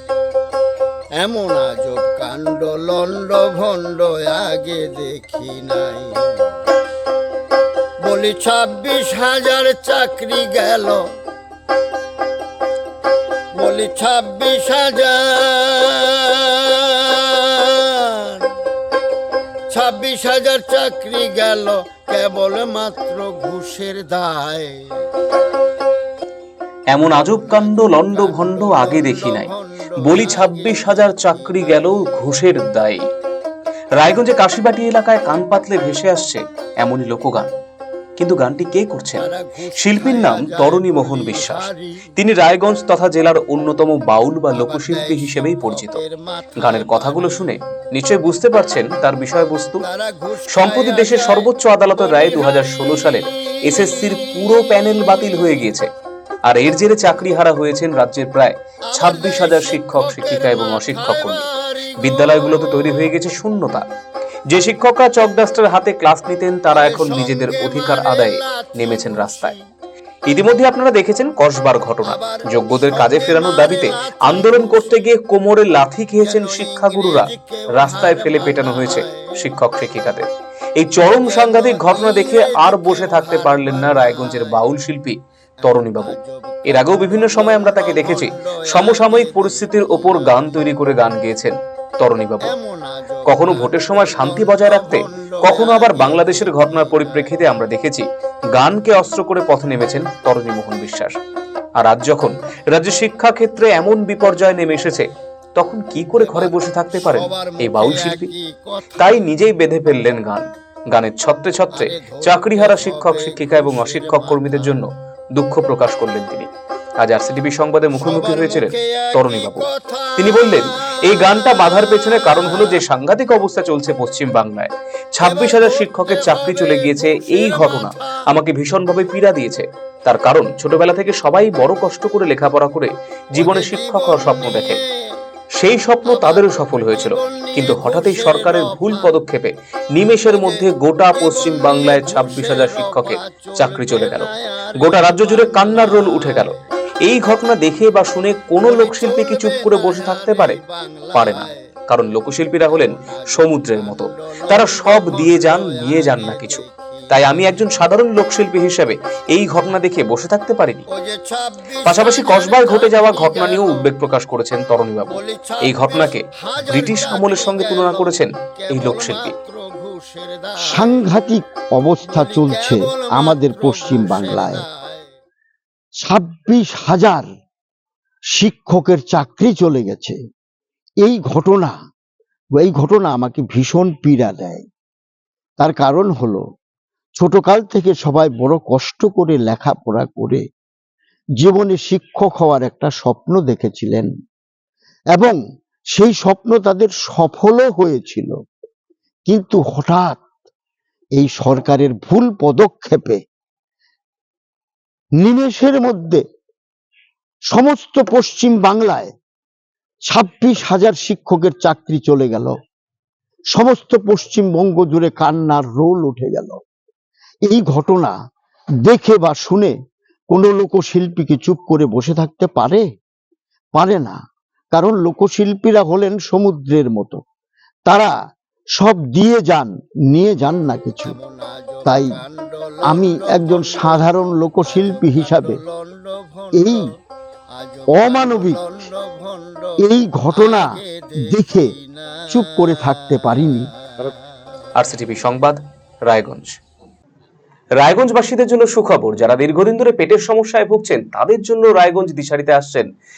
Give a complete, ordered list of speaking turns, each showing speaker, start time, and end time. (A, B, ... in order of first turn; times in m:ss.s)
0:01.2-0:06.5 A
0:08.0-0:11.0 A
0:13.5-0:18.5 A
0:19.7-0:25.0 A
0:26.9-0:29.5 B
0:27.1-0:32.2 A
0:30.0-0:33.0 B
0:34.0-0:37.5 B
0:38.2-0:39.2 B
0:39.2-0:42.1 A
0:39.8-0:46.0 B
0:44.5-0:47.5 A
0:46.6-0:49.8 B
0:49.8-0:54.3 A
0:50.5-0:55.9 B
0:56.5-1:03.8 B
0:58.9-1:03.0 A
1:04.5-1:09.5 B
1:06.7-1:09.6 A
1:10.3-1:26.2 B
1:12.0-1:15.1 A
1:16.2-1:19.6 A
1:21.0-1:24.7 A
1:25.6-1:30.6 A
1:26.7-1:32.5 B
1:32.4-1:37.4 A
1:33.3-1:41.1 B
1:41.8-1:48.3 B
1:46.2-1:49.4 A
1:49.0-1:56.5 B
1:51.7-1:54.8 A
1:57.0-2:14.8 B
1:57.9-2:02.8 A
2:05.2-2:08.4 A
2:13.4-2:15.1 A
2:15.6-2:30.6 B
2:16.0-2:19.2 A
2:20.1-2:26.6 A
2:28.6-2:31.7 A
2:31.1-2:40.9 B
2:32.7-2:37.8 A
2:40.9-2:43.9 A
2:41.8-2:49.4 B
2:45.1-2:51.2 A
2:50.6-2:54.6 C
2:52.0-2:55.1 A
2:56.0-2:57.2 C
2:58.3-3:00.2 C
3:01.0-3:01.7 C
3:02.6-3:04.6 C
3:05.6-3:06.4 C
3:07.2-3:10.4 C
3:11.4-3:14.1 C
3:16.0-3:18.3 C
3:19.3-3:20.2 C
3:21.2-3:23.2 C
3:25.2-3:26.2 C
3:27.5-3:29.1 C
3:30.1-3:32.5 C
3:33.5-3:36.6 C
3:37.5-3:38.1 C
3:38.8-3:39.7 C
3:40.3-3:42.8 C
3:43.8-3:44.2 C
3:44.7-3:47.2 C
3:47.9-3:48.1 C
3:48.8-3:51.2 C
3:51.0-3:56.9 A
3:51.9-3:52.2 C
3:52.8-3:55.6 C
3:56.5-3:56.9 C
3:57.5-4:04.2 A
3:58.0-3:58.6 C
3:59.8-4:00.7 C
4:01.3-4:01.7 C
4:02.3-4:03.7 C
4:04.8-4:06.6 B
4:07.8-4:12.9 B